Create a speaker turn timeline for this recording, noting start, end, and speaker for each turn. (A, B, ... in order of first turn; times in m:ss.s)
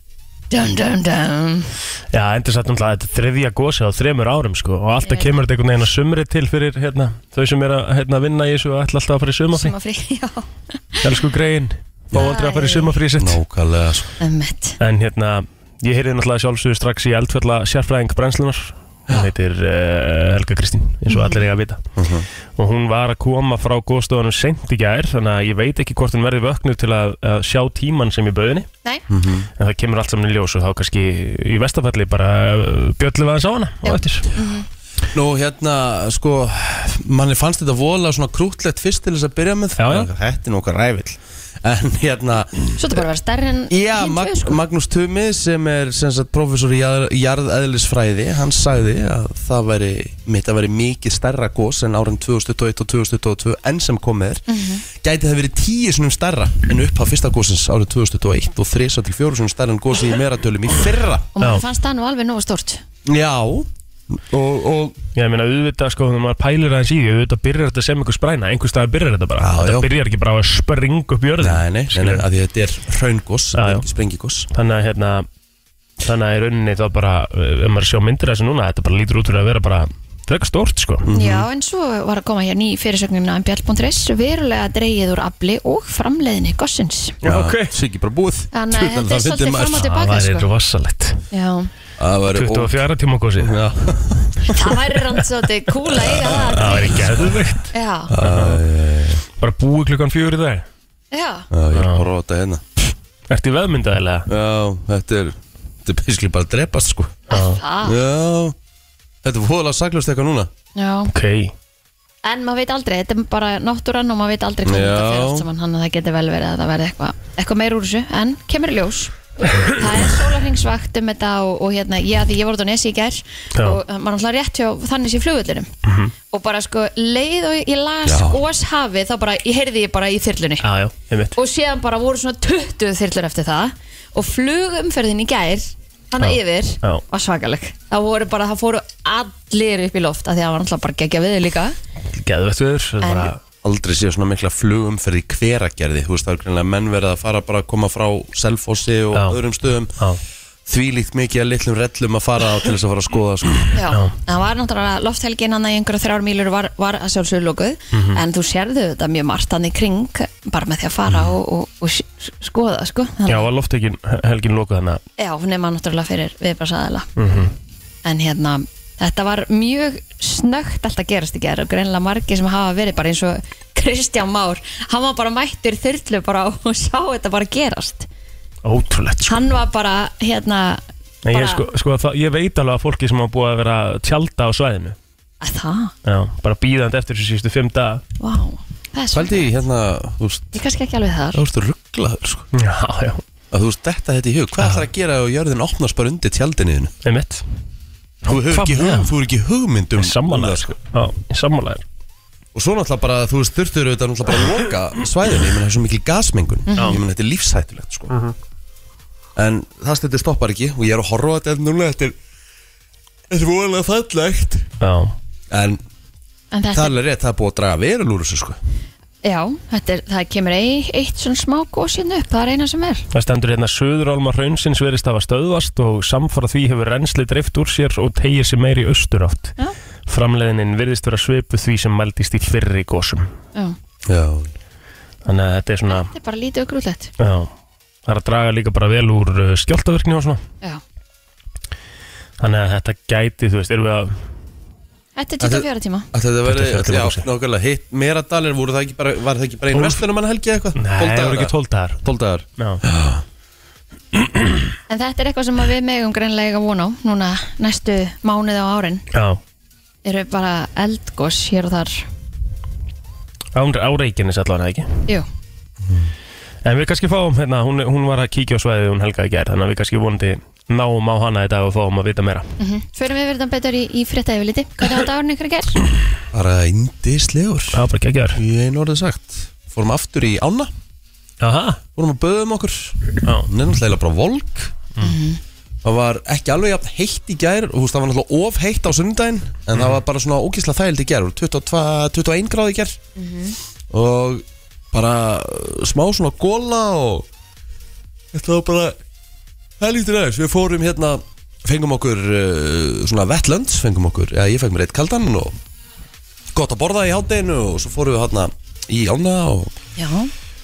0:00.5-0:01.7 A
0:02.1-0:09.7 B
0:05.0-0:05.4 A
0:09.5-0:11.1 A
0:11.0-0:13.4 B
0:12.1-0:13.0 A
0:13.2-0:14.2 C
0:14.2-0:14.8 A
0:14.8-0:21.8 B
0:21.1-0:21.4 A
0:22.0-0:22.3 C
0:22.6-0:28.7 B
0:29.1-0:29.5 C
0:29.6-0:34.3 B
0:33.8-0:34.7 A
0:35.1-0:43.0 C
0:39.8-0:40.1 B
0:42.8-0:44.6 A
0:43.7-1:01.3 C
0:54.5-0:54.8 A
1:01.4-1:02.8 A
1:03.0-1:05.0 C
1:05.1-1:12.2 B
1:09.4-1:09.9 C
1:11.4-1:14.5 C
1:13.6-1:13.8 B
1:14.5-1:15.3 B
1:16.0-1:21.1 B
1:21.0-1:21.5 C
1:21.1-1:27.2 A
1:27.2-1:27.7 B
1:27.2-1:29.9 C
1:28.5-1:30.5 A
1:29.8-1:31.2 B
1:31.3-1:31.7 A
1:32.0-1:32.8 C
1:32.3-1:33.6 B
1:33.4-1:34.5 C
1:34.4-1:38.1 A
1:36.2-1:37.4 C
1:36.3-1:38.6 B
1:38.1-1:39.2 C
1:39.4-1:40.6 B
1:41.1-1:41.5 A
1:41.5-1:42.6 C
1:41.7-1:42.0 B
1:43.3-1:44.3 B
1:44.3-1:47.2 C
1:47.3-1:48.0 A
1:47.3-1:47.6 B
1:47.8-1:48.6 C
1:49.2-1:50.5 C
1:50.8-1:51.1 A
1:51.1-1:51.5 B
1:52.2-2:05.7 A
1:54.6-1:55.4 C
2:05.8-2:06.1 B
2:06.3-2:10.6 A
2:08.0-2:08.4 C
2:10.6-2:11.4 B
2:11.3-2:21.8 A
2:16.2-2:17.0 B
2:22.1-2:23.4 B
2:23.0-2:23.3 A
2:23.6-2:29.9 C
2:30.7-2:33.8 C
2:33.7-2:43.5 A
2:37.9-2:38.2 B
2:43.2-2:45.0 B
2:45.2-2:47.1 A
2:47.2-2:47.5 B
2:48.0-2:58.1 A
2:58.6-2:59.4 B
2:59.3-3:01.6 A
3:01.2-3:05.0 B
3:05.4-3:05.9 A
3:06.0-3:08.0 B
3:08.2-3:09.5 A
3:09.1-3:10.6 C
3:10.5-3:11.4 A
3:11.3-3:12.5 C
3:12.5-3:13.2 B
3:13.5-3:16.9 C
3:17.0-3:17.4 B
3:18.2-3:20.7 C
3:18.3-3:19.1 B
3:20.0-3:21.8 B
3:22.5-3:28.1 C
3:26.7-3:27.0 A
3:29.4-3:32.2 C
3:33.3-3:34.7 C
3:34.8-3:35.2 B
3:35.5-3:35.8 C
3:36.5-3:37.0 A
3:36.7-3:38.6 C
3:39.2-3:43.0 A
3:43.1-3:49.5 B
3:50.1-3:53.3 B
3:54.1-3:54.5 C
3:55.2-3:56.1 B
3:55.9-3:57.1 A
3:57.2-3:57.5 B
3:58.0-4:00.4 B
4:02.4-4:04.2 B
4:05.2-4:06.1 A
4:05.4-4:11.5 C
4:06.4-4:07.2 B
4:09.7-4:10.0 B
4:10.8-4:12.0 B
4:12.0-4:13.2 C
4:14.2-4:14.6 B
4:14.9-4:19.0 A
4:19.1-4:19.4 B
4:20.0-4:22.0 A
4:23.5-4:25.0 B
4:26.6-4:32.5 B
4:32.6-4:35.8 A
4:36.3-4:37.8 C
4:37.7-4:38.4 B
4:38.3-4:40.7 C
4:41.4-4:41.8 B
4:42.0-4:44.7 C
4:43.2-4:43.5 B
4:45.0-4:45.4 A
4:45.8-4:53.0 C
4:53.2-4:53.6 A
4:53.9-4:57.3 C
4:58.3-4:59.0 C
4:59.8-5:05.6 C
5:06.5-5:09.7 C
5:10.0-5:10.3 A